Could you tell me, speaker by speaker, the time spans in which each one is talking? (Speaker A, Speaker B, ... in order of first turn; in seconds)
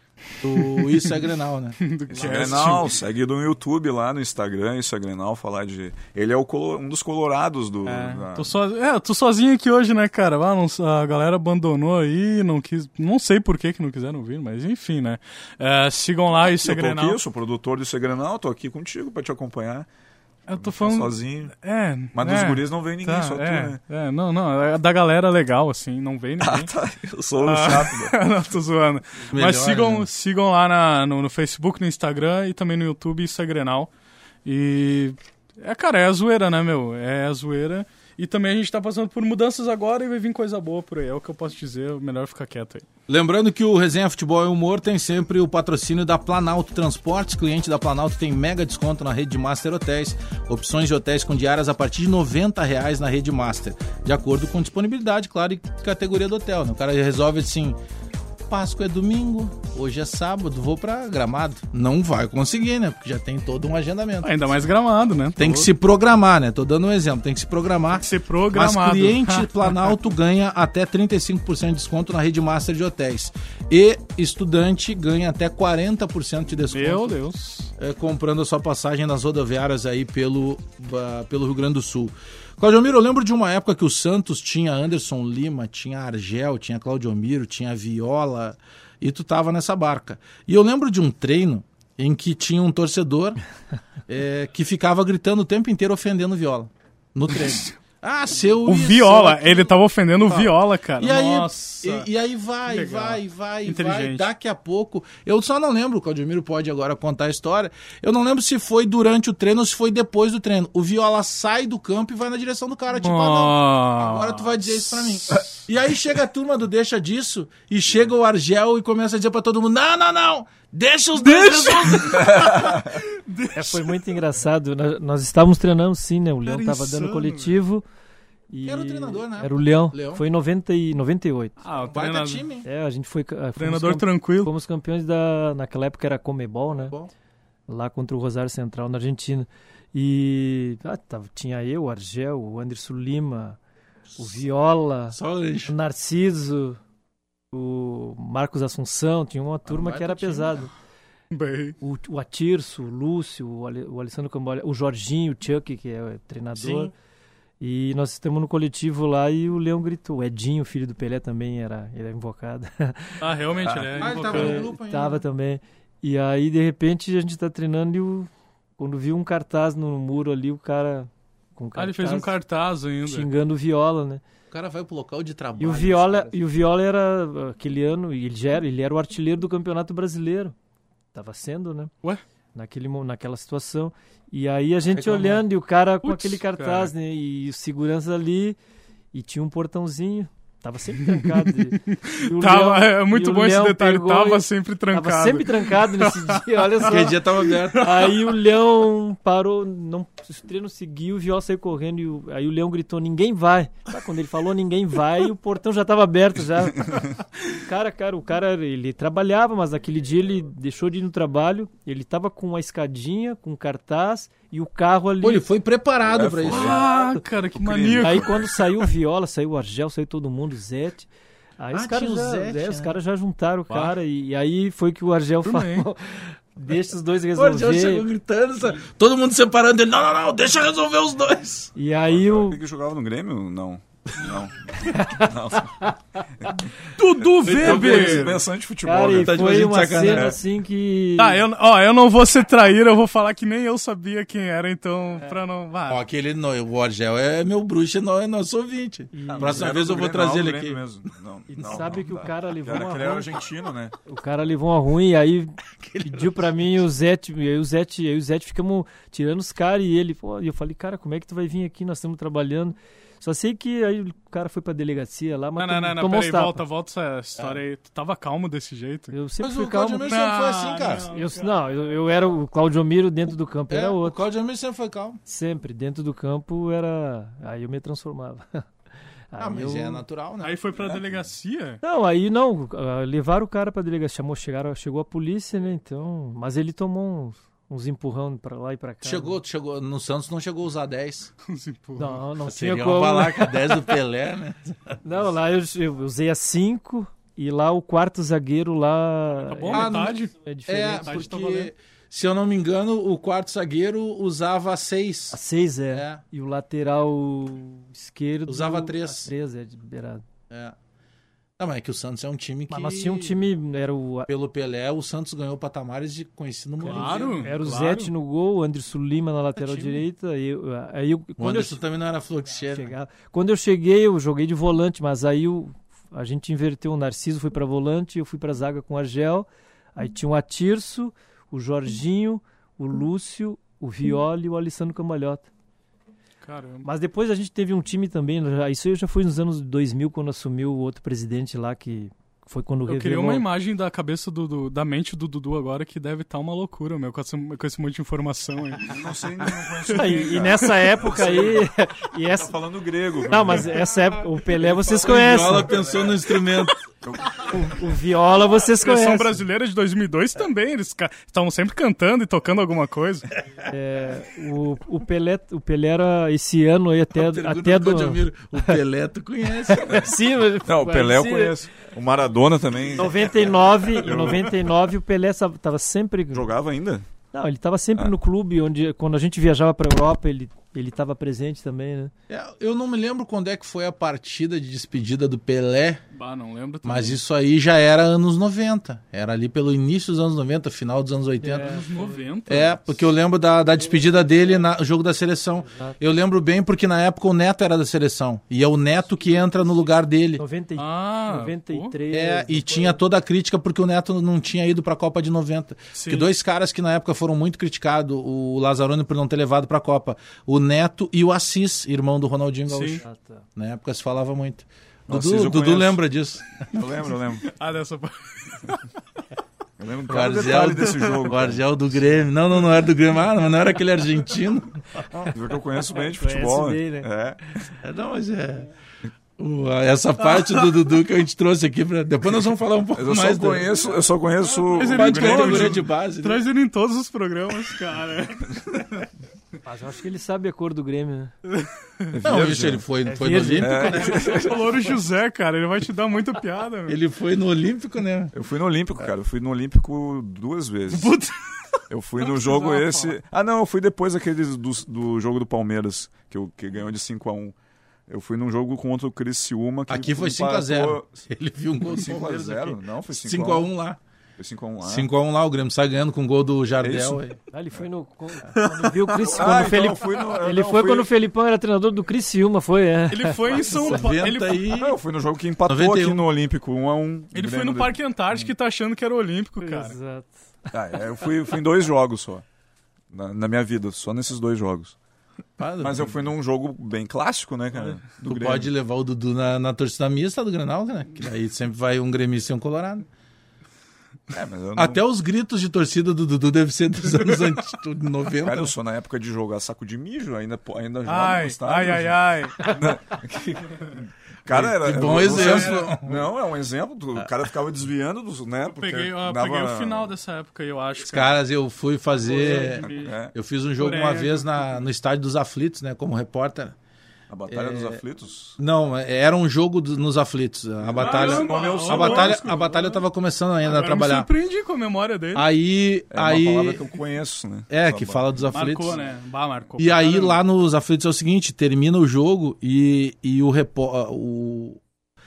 Speaker A: 0.4-2.7, 29.3-30.1, 43.1-57.8, 58.5-64.3, 65.4-77.1, 77.8-93.4, 94.1-122.8, 128.6-130.2, 131.8-132.7, 136.8-137.1, 145.1-145.7, 149.7-150.6, 156.6-156.9, 163.9-165.2, 174.5-176.4, 184.9-185.4, 196.8-198.2, 215.2-216.8, 221.7-222.9, 227.3-231.7, 237.4-238.4, 239.1-240.3, 245.9-250.8, 255.8-256.6, 269.4-271.1, 273.7-275.2, 279.4-280.6, 289.0-291.3, 292.5-295.0, 299.7-305.4, 305.9-306.2, 308.5-309.3, 310.5-310.7, 311.6-313.4, 314.3-317.5, 319.6-320.0, 321.4-322.9, 354.7-356.8, 367.1-370.1, 382.3-386.0, 386.8-391.8, 392.5-400.4, 402.1-413.0, 413.6-416.6, 420.1-424.8, 427.8-428.7, 429.4-433.7, 434.9-436.4, 442.2-444.0, 446.9-448.3, 459.9-464.0, 464.8-467.4, 473.6-474.9, 475.7-476.2, 485.6-486.2, 488.2-493.1, 494.8-498.7, 504.5-506.2, 511.0-516.7, 517.5-518.0, 518.6-524.3, 525.3-526.8, 527.7-529.0, 529.8-534.8
Speaker B: 1.8-2.9, 7.9-17.2, 20.5-26.7, 27.4-33.9, 34.4-42.8, 64.2-65.7, 67.9-70.0, 76.7-77.7, 98.6-102.1, 102.6-104.3, 112.9-115.5, 121.1-123.8, 126.4-127.6, 131.6-132.5, 133.6-134.5, 151.3-151.7, 163.2-164.7, 171.8-173.3, 186.0-186.9, 191.0-196.4, 216.5-218.4, 223.7-223.9, 225.4-225.9, 237.0-238.3, 241.2-246.0, 265.6-269.1, 270.0-271.6, 280.4-281.8, 291.4-292.2, 299.3-300.3, 301.0-301.7, 316.9-318.1, 336.4-336.9, 342.9-350.5, 358.8-363.3, 386.1-387.2, 391.5-392.8, 400.8-402.0, 405.9-406.3, 412.7-413.0, 417.5-418.8, 430.3-430.6, 434.7-439.0, 443.9-447.0, 452.2-453.1, 473.1-474.7, 477.3-479.9, 501.1-502.8, 505.1-505.9, 508.7-511.4, 512.2-513.1, 513.8-514.9, 521.0-523.0, 523.6-525.5, 528.5-530.4
Speaker C: 2.1-8.5, 16.6-19.9, 20.6-21.5, 22.1-23.8, 26.4-28.1, 122.2-122.8, 216.0-216.9, 217.5-218.5, 232.1-236.7, 237.2-240.4, 249.3-253.9, 348.8-351.7, 352.2-353.8, 357.0-357.5, 370.6-374.6, 376.3-377.1, 415.1-416.0, 416.7-417.5, 419.8-421.7, 425.3-427.4, 432.9-435.8, 442.1-442.9, 443.6-444.7, 448.3-451.1, 451.9-457.5, 458.1-461.1, 461.8-463.7, 464.4-465.1, 466.8-467.2, 469.2-471.1, 474.7-478.0, 480.7-482.4, 483.1-484.9, 485.8-488.7, 494.3-495.0, 498.4-510.1, 512.9-513.3, 517.3-518.6, 520.8-522.5, 526.1-528.5
Speaker D: 123.5-127.8, 128.5-131.6, 132.6-136.9, 137.7-143.6, 144.2-146.8, 147.5-150.7, 151.8-156.9, 157.6-163.2, 164.1-172.3, 173.0-174.2, 175.6-180.5, 181.1-181.9, 182.5-188.6, 189.1-197.2, 197.7-207.0, 207.6-215.4, 218.0-221.1, 221.6-228.1, 231.8-232.6, 234.8-235.9, 238.8-241.4, 249.1-249.8, 251.5-253.4, 254.1-266.6, 269.1-270.1, 271.1-274.2, 275.2-278.6, 279.3-280.0, 281.8-289.4, 292.0-293.9, 295.0-301.2, 305.3-310.2, 312.7-314.3, 316.8-321.8, 322.7-335.5, 336.8-343.4, 349.9-352.6, 353.2-355.9, 357.4-359.4, 363.7-368.7, 369.7-371.5, 372.9-376.5, 377.3-382.1, 391.4-392.2, 395.7-396.0, 400.4-403.0, 413.0-413.4, 425.9-427.1, 439.6-441.3, 443.0-444.5, 467.5-473.4, 479.6-480.3